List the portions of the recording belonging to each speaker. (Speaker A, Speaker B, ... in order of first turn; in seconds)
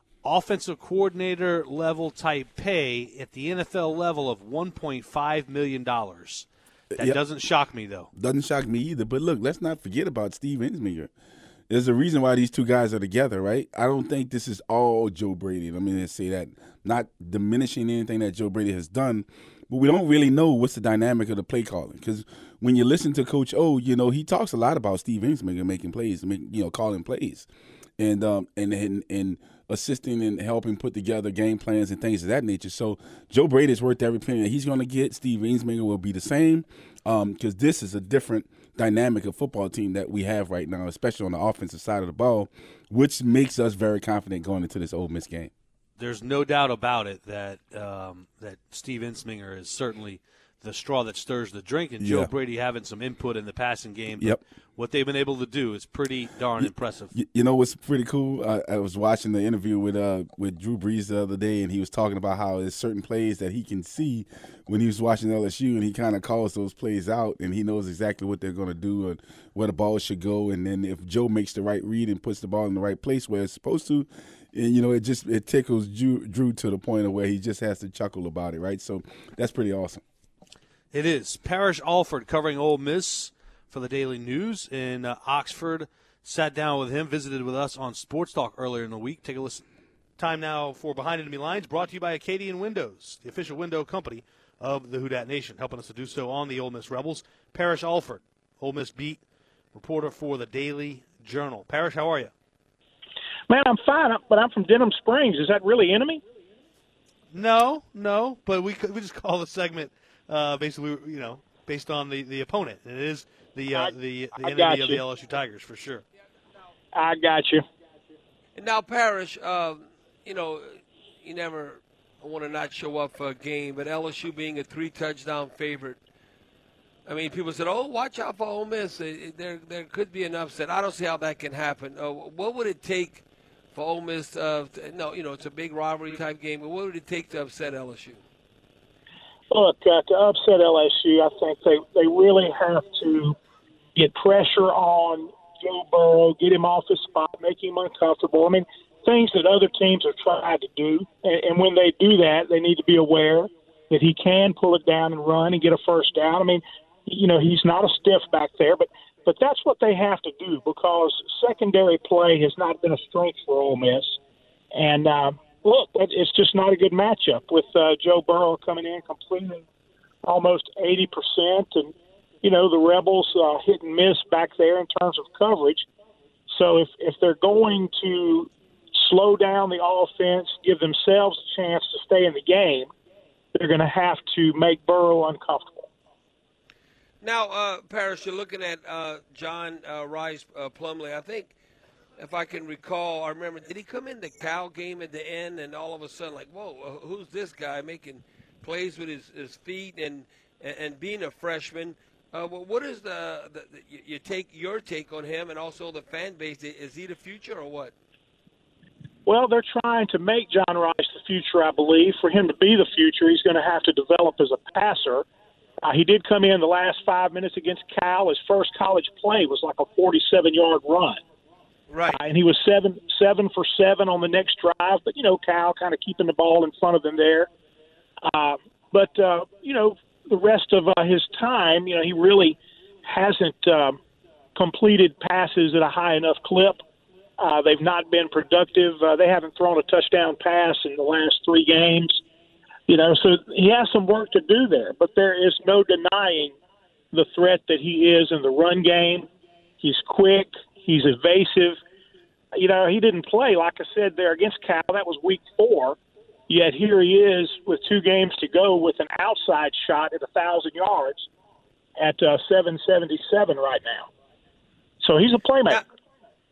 Speaker A: 0.2-6.5, 7.0-8.1, 46.0-57.1, 80.9-89.6, 90.2-99.2, 99.7-102.3, 107.3-116.0
Speaker B: 8.2-11.1, 11.7-27.5, 28.0-45.5, 52.0-52.3, 56.6-80.0
Speaker C: 103.5-106.2, 113.7-115.0, 116.9-117.6, 139.5-143.3, 143.9-164.2, 164.7-169.6, 170.2-175.8, 176.5-182.9, 183.5-185.9, 209.2-215.2, 215.8-221.2, 222.1-227.5, 228.2-234.0, 234.6-236.8, 237.4-242.2, 242.9-246.5, 247.1-249.3, 249.8-251.8, 252.5-256.0, 256.5-261.3, 262.0-264.1, 265.0-265.8
Speaker D: 118.5-126.0, 127.0-133.2, 133.7-138.2, 187.2-191.5, 192.2-207.9, 221.9-222.2